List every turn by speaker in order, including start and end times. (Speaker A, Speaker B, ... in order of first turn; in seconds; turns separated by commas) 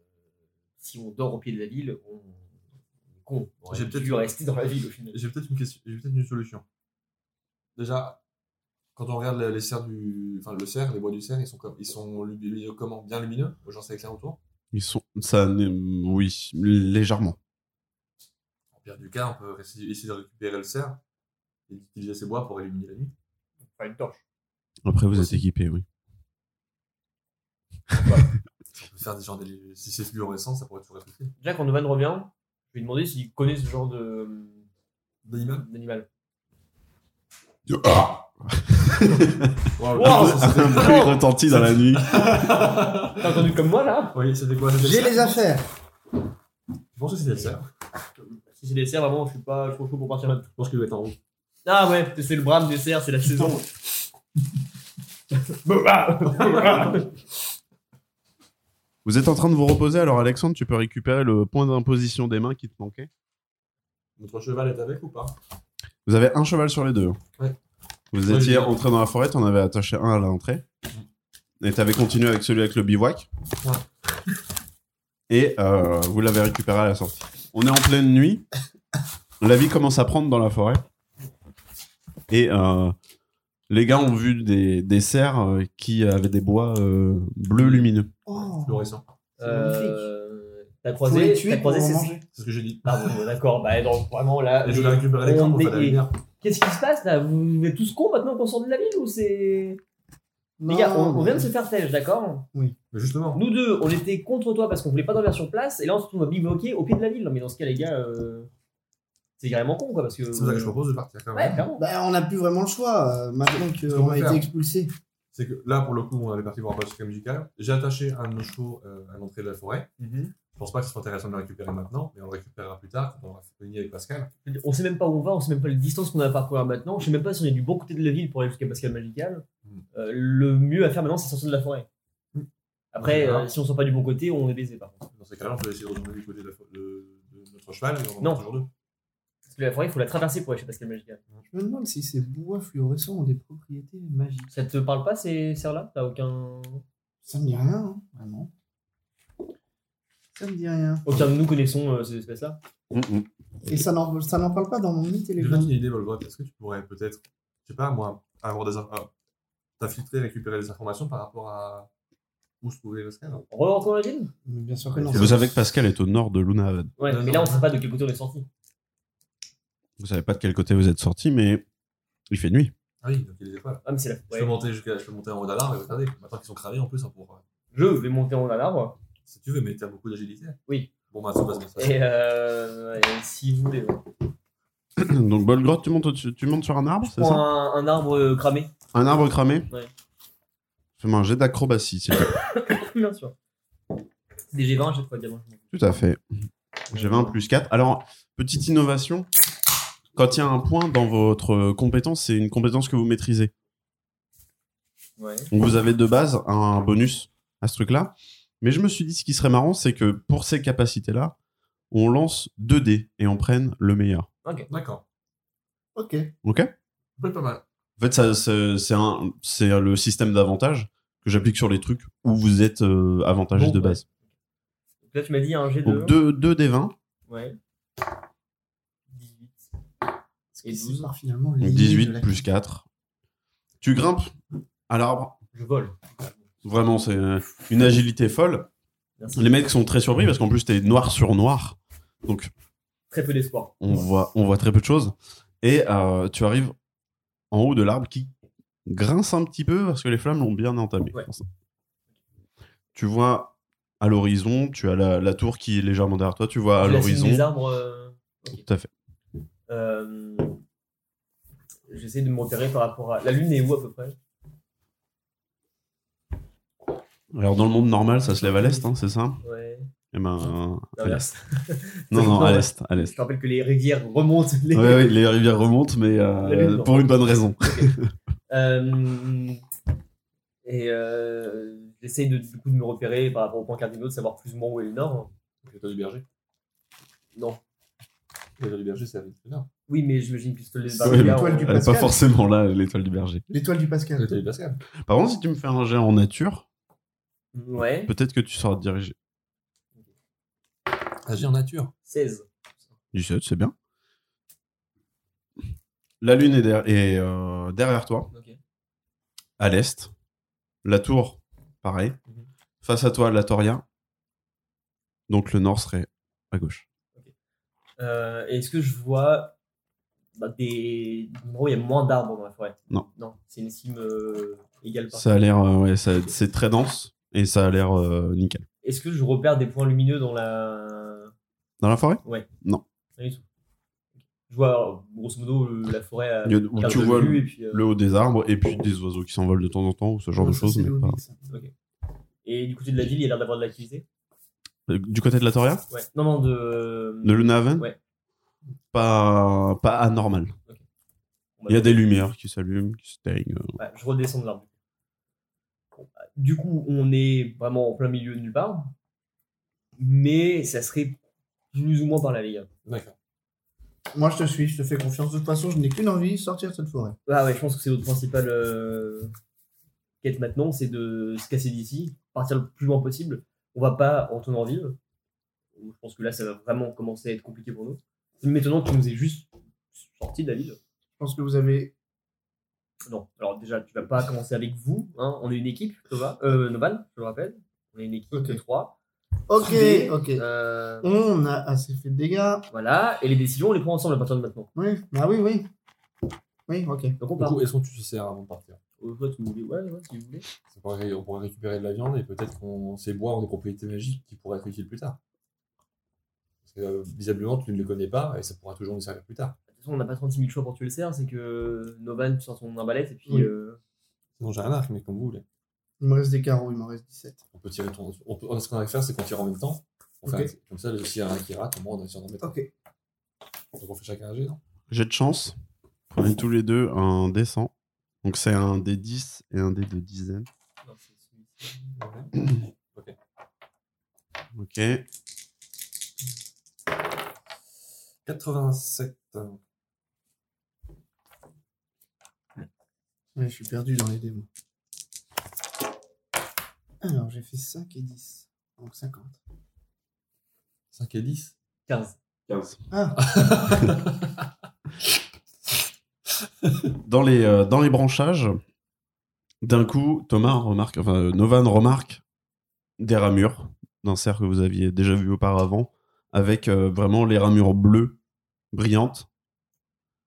Speaker A: 0.8-2.4, Speaker A: 3.2-5.2, Speaker B: 3.7-4.3, Speaker B: 5.1-6.6, Speaker B: 7.8-8.2, Speaker B: 8.9-14.4, Speaker C: 14.7-17.4, Speaker B: 18.7-21.0, Speaker B: 21.7-23.1, Speaker A: 23.7-24.2, Speaker C: 24.8-25.8, Speaker A: 27.9-28.2, Speaker B: 28.7-31.3, Speaker A: 31.4-34.6, Speaker B: 35.2-35.7, Speaker A: 35.6-36.1, Speaker C: 37.7-42.2, Speaker B: 39.8-43.4, Speaker A: 39.9-41.2, Speaker A: 43.1-44.2, Speaker B: 44.1-45.4, Speaker D: 44.8-45.6, Speaker B: 46.9-47.7, Speaker A: 48.5-50.5, Speaker B: 50.6-51.2, Speaker A: 51.6-53.6, Speaker A: 55.3-57.1, Speaker B: 56.3-57.0, Speaker C: 59.0-63.1, Speaker B: 64.2-65.3, Speaker C: 66.0-67.2, Speaker C: 68.1-70.6, Speaker B: 68.2-68.8, Speaker C: 71.6-73.3, Speaker C: 75.3-78.5, Speaker C: 79.4-80.8, Speaker C: 82.3-82.9, Speaker C: 83.7-88.1, Speaker B: 87.5-89.0, Speaker D: 88.2-90.1, Speaker A: 89.4-92.1, Speaker D: 91.0-92.2, Speaker B: 92.3-93.2, Speaker A: 92.8-99.8, Speaker B: 94.6-96.2, Speaker D: 100.6-101.5, Speaker A: 100.7-102.5, Speaker B: 102.9-103.4, Speaker A: 103.3-108.5, Speaker A: 109.4-110.8, Speaker B: 110.3-111.6, Speaker A: 111.3-111.8, Speaker D: 111.8-114.9, Speaker B: 113.9-114.5, Speaker B: 115.3-119.9, Speaker A: 120.0-120.3, Speaker B: 120.5-124.3, Speaker A: 124.4-131.9, Speaker A: 132.9-135.0, Speaker B: 133.0-133.5, Speaker B: 135.1-138.7, Speaker A: 139.5-141.2, Speaker D: 141.5-144.5, Speaker A: 144.5-146.8, Speaker D: 147.2-148.5, Speaker D: 150.3-151.0, Speaker A: 151.0-152.6, Speaker C: 152.9-153.3, Speaker D: 153.7-155.7, Speaker B: 155.4-159.1, Speaker B: 159.8-161.9, Speaker B: 162.6-163.4, Speaker A: 163.5-164.3, Speaker D: 164.4-165.3, Speaker B: 164.9-165.4, Speaker C: 165.1-166.9, Speaker A: 167.0-168.5, Speaker B: 167.0-167.7, Speaker C: 170.0-171.6, Speaker C: 172.3-172.7, Speaker B: 173.0-177.4, Speaker A: 173.8-174.5, Speaker A: 177.7-179.0, Speaker B: 179.2-182.0, Speaker A: 181.8-184.0, Speaker C: 185.0-187.4, Speaker A: 187.0-188.7, Speaker C: 188.9-189.7, Speaker C: 191.0-192.3, Speaker A: 192.4-193.3, Speaker A: 194.5-195.6, Speaker C: 195.7-196.2, Speaker C: 196.9-199.3, Speaker A: 196.9-197.3, Speaker C: 200.1-203.5, Speaker A: 205.2-205.5, Speaker C: 205.5-211.3, Speaker C: 211.9-214.3, Speaker B: 214.7-215.0, Speaker D: 215.9-216.3, Speaker C: 216.4-216.7, Speaker B: 217.2-217.6, Speaker C: 218.0-224.0, Speaker A: 223.5-224.1, Speaker A: 225.0-226.2, Speaker C: 225.8-226.9, Speaker A: 227.3-227.6, Speaker A: 229.1-229.7, Speaker D: 230.5-232.4, Speaker A: 230.6-231.1, Speaker C: 231.6-232.8, Speaker C: 233.8-234.3, Speaker C: 234.9-235.3, Speaker A: 235.5-236.2, Speaker C: 236.6-238.7, Speaker A: 239.2-239.7, Speaker C: 239.3-242.5, Speaker A: 243.1-244.0, Speaker C: 243.8-246.7, Speaker C: 247.5-248.3, Speaker C: 248.8-251.4, Speaker C: 252.9-257.5, Speaker A: 256.8-258.6, Speaker C: 258.5-258.9, Speaker A: 259.7-260.6, Speaker A: 261.9-264.1, Speaker C: 267.3-269.4, Speaker A: 268.4-268.9, Speaker A: 269.4-269.9, Speaker C: 270.1-271.2, Speaker A: 270.4-275.1, Speaker C: 272.1-273.1, Speaker C: 274.7-278.1, Speaker A: 276.4-277.9, Speaker A: 278.5-279.6, Speaker A: 280.6-285.3, Speaker B: 285.6-286.2, Speaker A: 287.3-287.6, Speaker B: 288.6-289.7, Speaker A: 289.9-291.8, Speaker D: 291.0-292.1, Speaker C: 291.0-293.5, Speaker D: 293.5-294.4, Speaker B: 294.1-294.8, Speaker C: 295.0-296.6, Speaker A: 297.5-298.1, Speaker C: 298.1-299.1, Speaker B: 301.2-301.9, Speaker A: 302.1-302.4, Speaker C: 303.1-303.7, Speaker C: 306.2-308.3, Speaker A: 308.3-308.6, Speaker C: 309.6-310.1, Speaker C: 310.8-312.1, Speaker C: 312.8-313.8, Speaker C: 315.3-316.8, Speaker A: 318.0-319.5, Speaker A: 320.4-325.4, Speaker C: 325.1-328.6, Speaker A: 328.8-331.3, Speaker C: 331.8-332.8, Speaker A: 333.2-333.4, Speaker A: 334.5-337.8, Speaker C: 336.4-341.2, Speaker B: 336.8-337.3, Speaker D: 340.3-341.4, Speaker A: 342.4-344.0, Speaker C: 344.9-345.8, Speaker A: 345.9-348.0, Speaker C: 347.2-347.9, Speaker C: 348.9-350.5, Speaker A: 351.6-351.9, Speaker C: 351.7-353.8, Speaker A: 353.8-354.7, Speaker A: 355.9-358.9, Speaker A: 360.0-361.2, Speaker A: 361.7-362.7, Speaker B: 362.8-363.1, Speaker D: 364.1-367.2, Speaker A: 367.2-369.3, Speaker A: 370.2-375.0, Speaker A: 375.8-380.8, Speaker D: 381.2-381.9, Speaker A: 383.1-388.9, Speaker D: 388.3-388.6, Speaker D: 389.5-390.4, Speaker A: 389.6-391.1, Speaker D: 391.0-392.7, Speaker A: 392.7-394.7, Speaker D: 394.7-395.7, Speaker D: 396.7-397.2, Speaker A: 397.2-397.6, Speaker B: 397.4-398.8, Speaker A: 399.0-400.4, Speaker B: 400.7-405.2, Speaker B: 406.6-409.6, Speaker A: 409.8-413.8, Speaker B: 414.4-415.4, Speaker D: 416.0-417.4, Speaker B: 417.5-422.5, Speaker D: 420.2-420.5, Speaker D: 422.4-422.7, Speaker B: 423.8-424.6, Speaker C: 424.9-425.5, Speaker C: 426.1-427.7, Speaker C: 428.2-430.5, Speaker A: 430.8-431.9, Speaker B: 432.0-433.1, Speaker C: 434.5-435.0, Speaker B: 438.2-439.6, Speaker D: 443.3-444.5, Speaker D: 447.0-449.4, Speaker B: 450.9-451.5, Speaker A: 451.9-452.1, Speaker C: 452.5-452.8, Speaker D: 452.9-453.2, Speaker B: 453.2-454.3, Speaker C: 457.0-458.6, Speaker C: 459.6-462.2, Speaker C: 463.0-468.2, Speaker C: 468.7-469.3